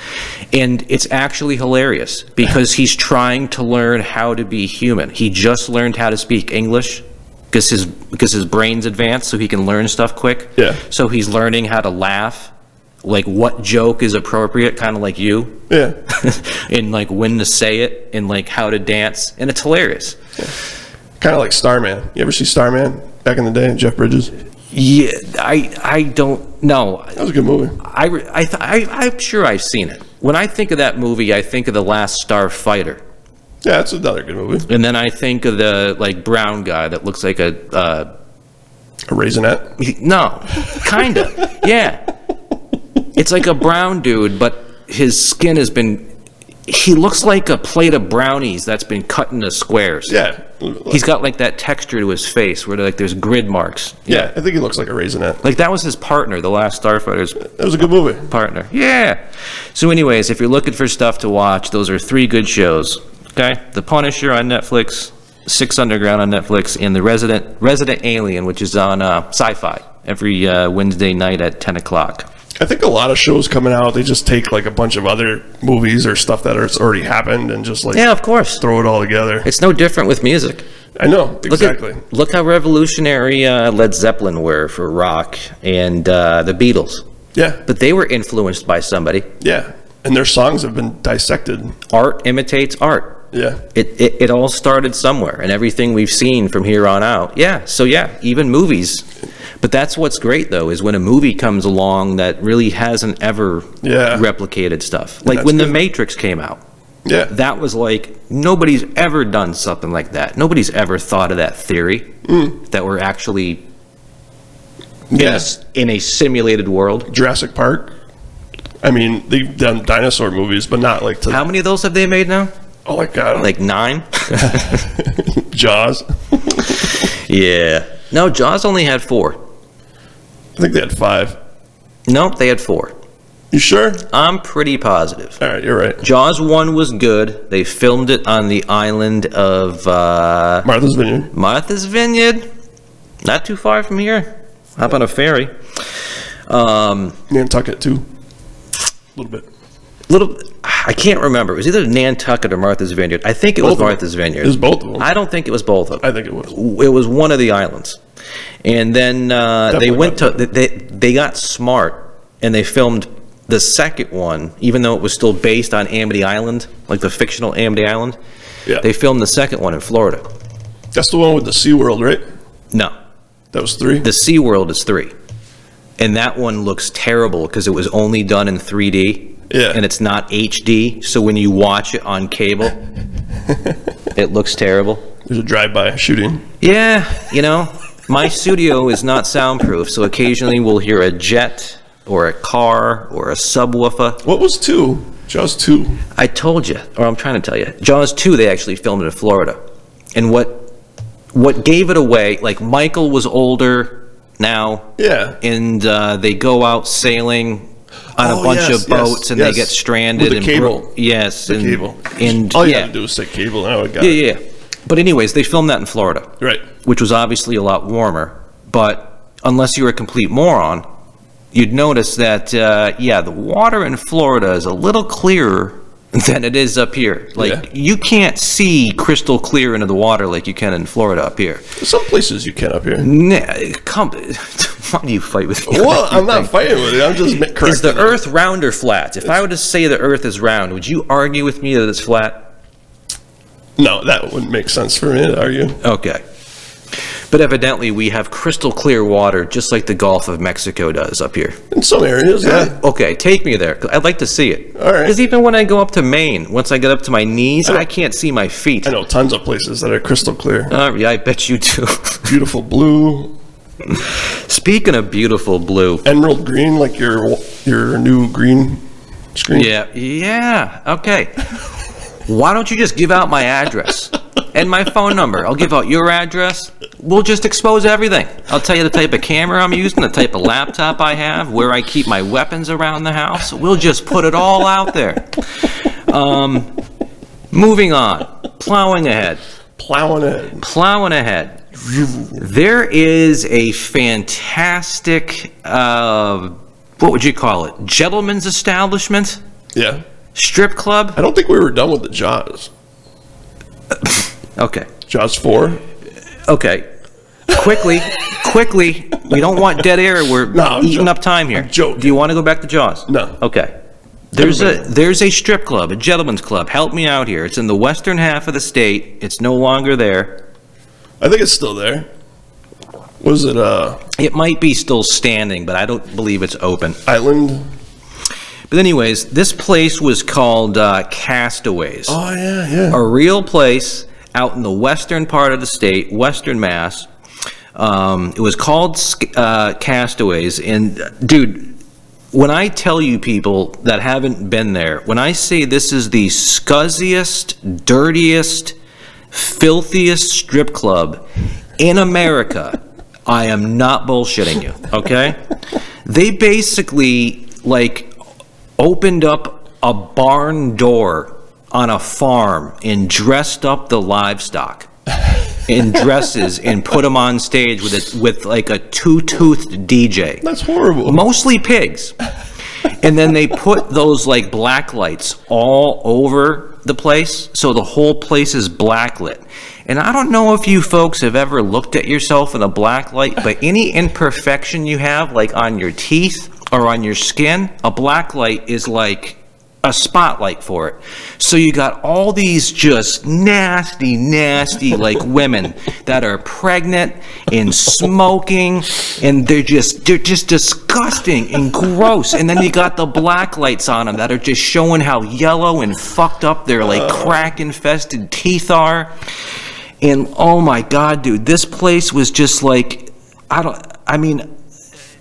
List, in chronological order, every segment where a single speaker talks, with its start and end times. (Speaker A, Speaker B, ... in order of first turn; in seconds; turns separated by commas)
Speaker A: 0.5-12.5, Speaker A: 13.0-20.2, Speaker B: 15.7-16.0, Speaker B: 21.2-24.3, Speaker A: 24.7-27.2, Speaker B: 27.2-27.8, Speaker A: 27.8-33.0, Speaker B: 33.6-34.7, Speaker A: 34.7-38.1, Speaker B: 39.1-39.7, Speaker A: 39.8-42.0, Speaker A: 43.1-46.1, Speaker A: 46.7-50.2, Speaker B: 50.1-51.0, Speaker A: 50.9-54.3, Speaker B: 54.1-55.4, Speaker A: 55.4-57.5, Speaker B: 57.4-58.3, Speaker A: 58.2-59.2, Speaker A: 59.7-72.3, Speaker B: 72.6-78.0, Speaker A: 77.9-78.6, Speaker B: 78.6-79.5, Speaker A: 79.4-80.7, Speaker B: 81.0-82.0, Speaker A: 81.5-87.0, Speaker B: 87.3-87.6, Speaker A: 87.7-89.3, Speaker B: 89.4-91.8, Speaker A: 91.9-99.1, Speaker B: 93.3-93.6, Speaker A: 99.6-106.6, Speaker B: 103.8-104.3, Speaker B: 105.3-105.8, Speaker B: 107.0-107.3, Speaker A: 107.3-113.6, Speaker B: 112.3-112.5, Speaker B: 115.1-115.5, Speaker A: 115.1-117.1, Speaker B: 117.1-118.0, Speaker B: 118.8-121.4, Speaker A: 121.3-122.5, Speaker B: 122.9-123.5, Speaker A: 123.3-124.8, Speaker B: 124.4-126.8, Speaker A: 126.9-129.4, Speaker B: 130.6-131.4, Speaker A: 132.1-132.9, Speaker B: 133.5-134.1, Speaker A: 134.1-135.4, Speaker B: 135.4-136.0, Speaker A: 136.0-140.7, Speaker B: 140.7-141.3, Speaker A: 141.3-142.5, Speaker A: 143.2-145.5, Speaker A: 146.5-147.2, Speaker B: 147.3-148.1, Speaker B: 149.2-149.5, Speaker A: 150.1-158.0, Speaker B: 153.6-155.1, Speaker B: 156.0-156.5, Speaker A: 158.6-168.2, Speaker B: 159.7-160.4, Speaker A: 168.8-170.2, Speaker B: 170.9-172.2, Speaker B: 173.5-174.1, Speaker A: 174.0-175.1, Speaker A: 176.0-182.8, Speaker B: 179.5-179.8, Speaker A: 184.1-185.0, Speaker B: 185.3-186.4, Speaker A: 186.6-194.2, Speaker B: 194.2-196.0, Speaker A: 196.2-199.6, Speaker A: 200.2-200.7, Speaker A: 201.3-212.9, Speaker B: 205.0-205.4, Speaker B: 208.2-210.9, Speaker B: 211.5-214.2, Speaker A: 214.0-220.8, Speaker A: 221.5-231.7, Speaker B: 227.4-227.6, Speaker B: 231.8-233.1, Speaker A: 233.0-236.6, Speaker B: 235.7-238.2, Speaker A: 237.6-242.5, Speaker B: 243.8-245.8, Speaker A: 245.8-246.2, Speaker A: 247.3-251.6, Speaker B: 251.7-252.8, Speaker A: 252.4-258.9, Speaker B: 254.8-255.2, Speaker B: 258.9-260.7, Speaker A: 260.7-262.3, Speaker B: 262.3-263.4, Speaker A: 263.9-266.1, Speaker B: 266.1-268.8, Speaker B: 269.4-269.7, Speaker A: 269.5-271.4, Speaker A: 272.3-286.7, Speaker A: 287.5-289.4, Speaker B: 289.8-290.6, Speaker A: 290.6-299.4, Speaker B: 299.8-300.0, Speaker A: 300.4-301.2, Speaker B: 301.2-302.7, Speaker A: 304.0-304.9, Speaker B: 305.1-305.8, Speaker A: 306.5-306.9, Speaker A: 307.5-313.7, Speaker B: 310.5-312.2, Speaker B: 313.1-313.4, Speaker A: 314.3-320.4, Speaker B: 314.4-314.9, Speaker B: 321.2-322.1, Speaker B: 323.2-324.0, Speaker A: 324.2-327.0, Speaker B: 327.1-327.7, Speaker A: 328.7-332.2, Speaker B: 332.1-333.0, Speaker A: 332.9-337.1, Speaker A: 337.8-341.8, Speaker A: 342.3-348.8, Speaker A: 349.3-351.2, Speaker A: 351.8-355.4, Speaker A: 356.1-358.1, Speaker A: 358.8-364.9, Speaker A: 365.7-370.4, Speaker B: 370.4-371.2, Speaker A: 371.1-372.1, Speaker A: 372.9-409.1, Speaker B: 406.9-407.3, Speaker A: 410.0-414.5